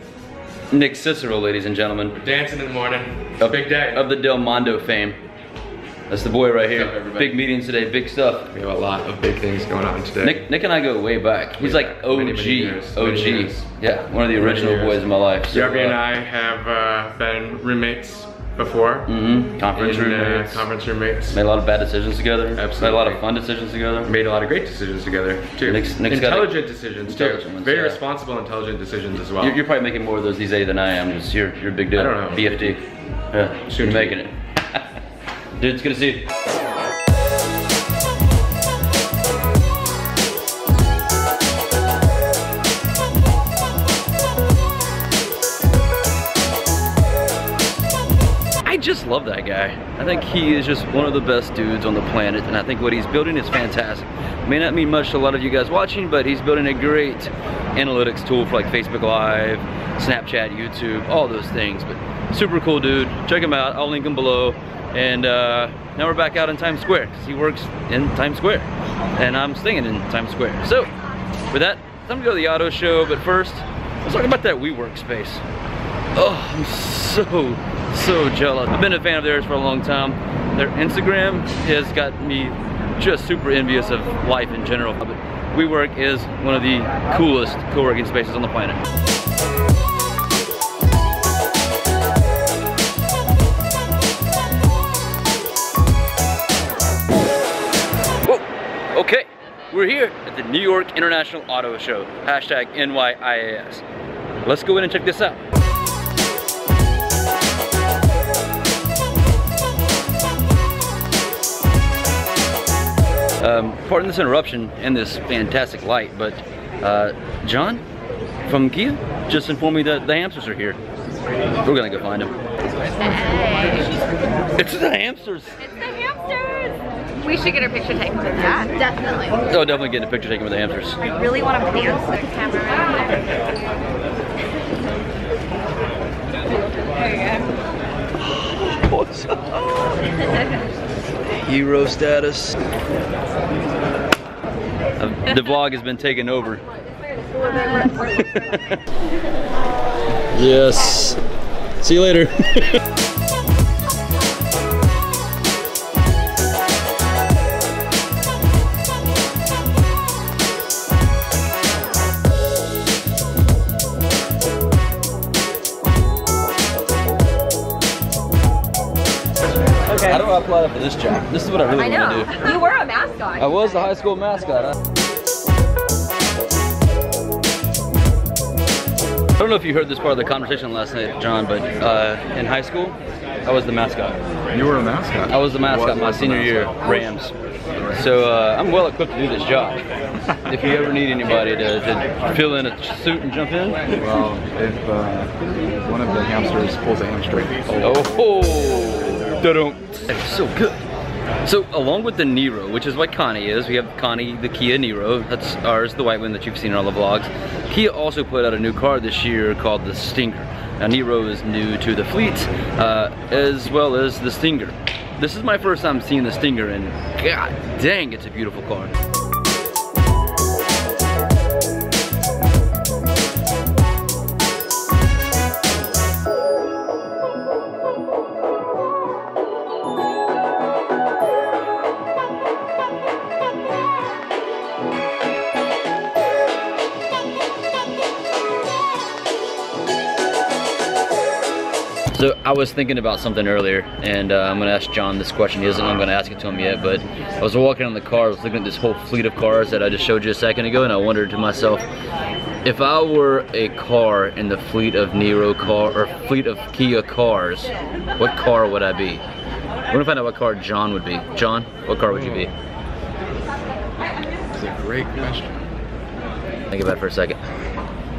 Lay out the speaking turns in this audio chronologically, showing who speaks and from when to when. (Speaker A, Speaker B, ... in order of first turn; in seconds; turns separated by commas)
Speaker A: 0.7-2.2, Speaker B: 2.2-4.1, Speaker A: 3.4-5.2, Speaker A: 6.1-8.5, Speaker B: 6.7-7.3, Speaker B: 8.5-10.4, Speaker A: 10.2-16.0, Speaker B: 11.6-13.7, Speaker B: 14.4-15.0, Speaker B: 15.5-19.1, Speaker A: 19.1-20.6, Speaker B: 19.7-21.4, Speaker A: 21.3-24.1, Speaker B: 22.5-23.2, Speaker B: 24.1-29.6, Speaker A: 25.6-28.0, Speaker A: 29.4-34.8, Speaker B: 31.9-32.7, Speaker B: 33.7-34.1, Speaker A: 35.6-36.3, Speaker A: 48.6-70.9, Speaker A: 71.5-75.4, Speaker A: 76.2-88.8, Speaker A: 98.2-103.8, Speaker A: 104.4-105.4, Speaker A: 113.4-117.8, Speaker A: 118.5-120.8, Speaker A: 121.6-122.3, Speaker C: 123.0-123.9, Speaker A: 124.5-125.7, Speaker C: 125.9-126.5, Speaker C: 127.2-129.4, Speaker A: 129.5-131.1, Speaker C: 131.0-133.2, Speaker A: 138.3-140.0, Speaker A: 141.3-142.6, Speaker A: 145.0-146.6, Speaker A: 147.8-148.8, Speaker A: 150.3-151.2, Speaker A: 151.8-152.8, Speaker A: 169.9-172.5, Speaker C: 171.8-173.5, Speaker A: 173.4-174.8, Speaker A: 179.4-184.2, Speaker D: 184.5-187.0, Speaker A: 185.3-187.3, Speaker D: 187.7-188.0, Speaker A: 187.9-189.8, Speaker A: 190.4-193.9, Speaker D: 193.9-198.0, Speaker A: 197.8-200.8, Speaker A: 201.4-218.9, Speaker A: 242.1-251.8, Speaker A: 252.6-259.2, Speaker A: 259.9-262.5, Speaker D: 262.1-262.5, Speaker D: 264.5-265.6, Speaker A: 266.7-267.4